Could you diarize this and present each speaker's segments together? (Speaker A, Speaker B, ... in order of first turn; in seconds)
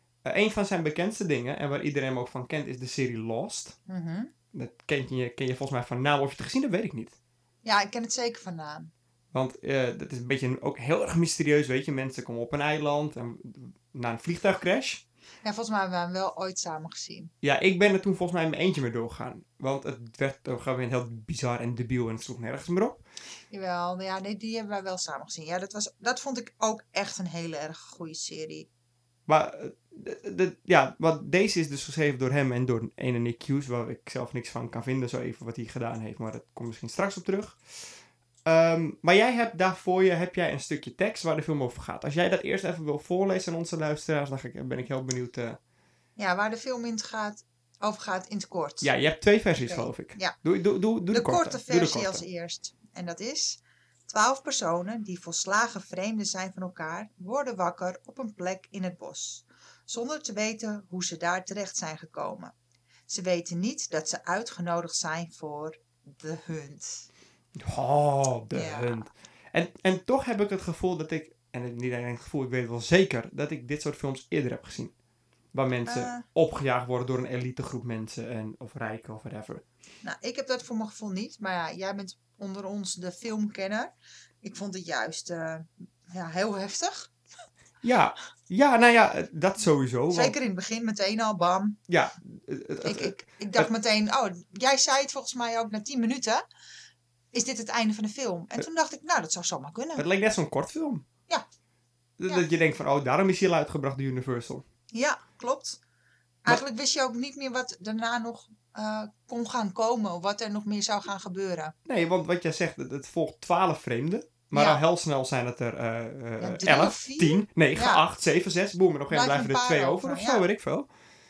Speaker A: 0.2-3.8, 4.5-7.2, 9.3-15.0, 17.4-23.0, 29.3-37.6, 38.4-45.6, 48.8-52.2, 67.6-74.9, 75.5-79.6, 87.8-90.3, 91.9-93.7, 100.0-101.0, 102.2-104.6, 111.9-120.9
Speaker B: 3.9-4.3, 7.6-8.9, 15.4-17.3, 23.5-28.7, 46.2-48.9, 49.6-50.4, 51.1-62.5, 63.1-67.0, 68.5-69.1, 75.8-76.2, 80.0-87.1, 90.1-91.8, 92.8-96.4, 97.3-100.0, 104.9-105.8, 106.4-111.7, 114.5-114.8, 116.4-118.0, 119.1-120.5